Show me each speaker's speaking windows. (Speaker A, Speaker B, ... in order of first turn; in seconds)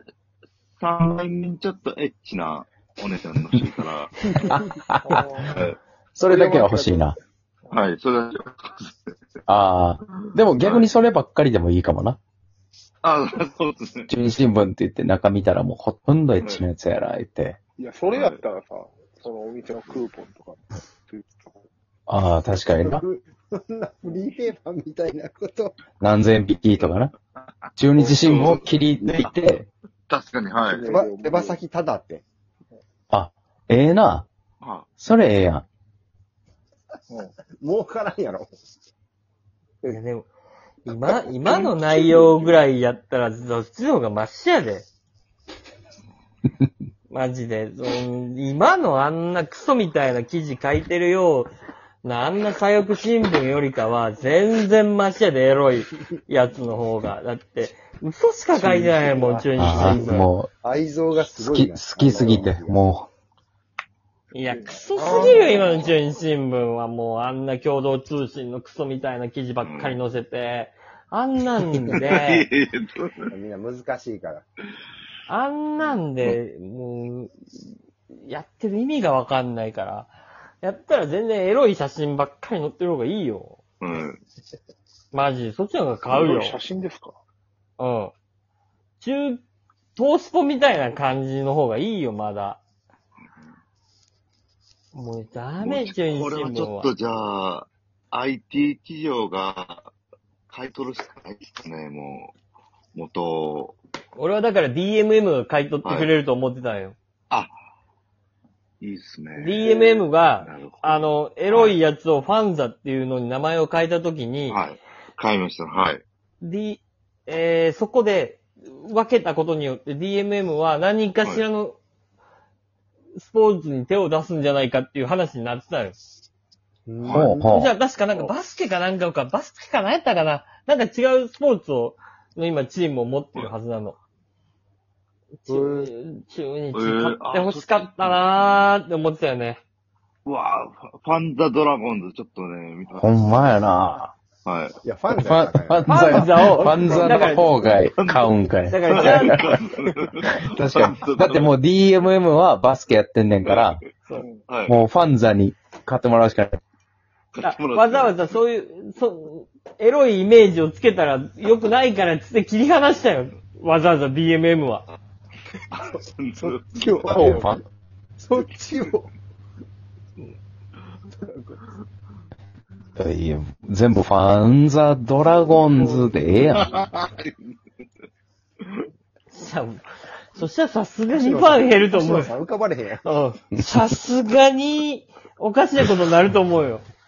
Speaker A: 0.8-4.1, 7.7-9.1, 10.6-10.9, 13.0-14.1, 16.4-16.7, 18.1-18.4, 27.4-29.4, 30.1-30.9, 34.6-34.9, 69.6-70.0, 71.9-73.3, 83.8-84.2, 95.6-99.9, 100.5-102.3, 103.0-103.8, 105.8-106.1, 108.8-111.8, 114.5-116.0, 127.0-127.3, 136.7-138.7, 140.3-143.2, 144.4-144.8, 148.0-148.4, 148.9-151.6, 153.5-153.8, 154.5-154.8, 157.3-158.3, 165.7-167.4, 175.3-177.5
Speaker B: 4.3-4.6, 22.4-25.8, 30.9-32.2, 37.6-38.5, 58.5-62.8, 73.3-74.5, 126.9-127.6, 135.5-135.9, 144.8-147.7, 166.4-167.6, 168.2-169.1, 171.2-171.5, 181.1-183.0
Speaker C: 4.4-5.5, 6.2-7.2, 9.5-12.2, 14.1-17.6, 22.1-23.0, 26.0-27.1, 27.8-29.7, 33.1-34.3, 35.0-35.6, 59.6-60.5, 61.3-63.1, 127.1-127.8, 143.0-144.1, 145.1-149.3, 150.3-153.8, 154.7-156.6, 167.1-167.6, 173.0-176.7
Speaker D: 5.0-5.6, 6.2-7.1, 17.8-21.7, 30.6-31.6, 41.7-42.6, 64.5-65.9, 86.1-87.2
Speaker E: 39.9-40.3, 40.9-44.9, 47.1-51.5, 52.0-60.1, 64.3-72.5, 75.3-77.3, 78.1-83.6, 85.1-86.6, 87.8-88.1, 89.0-89.4, 90.0-92.6, 94.9-96.9, 104.2-107.0, 109.4-114.6, 116.4-121.8, 123.2-126.0, 127.5-134.0, 135.4-139.6, 145.9-147.6, 148.7-149.5, 157.4-164.9, 175.8-176.1, 179.3-179.8, 180.3-182.3, 183.0-186.8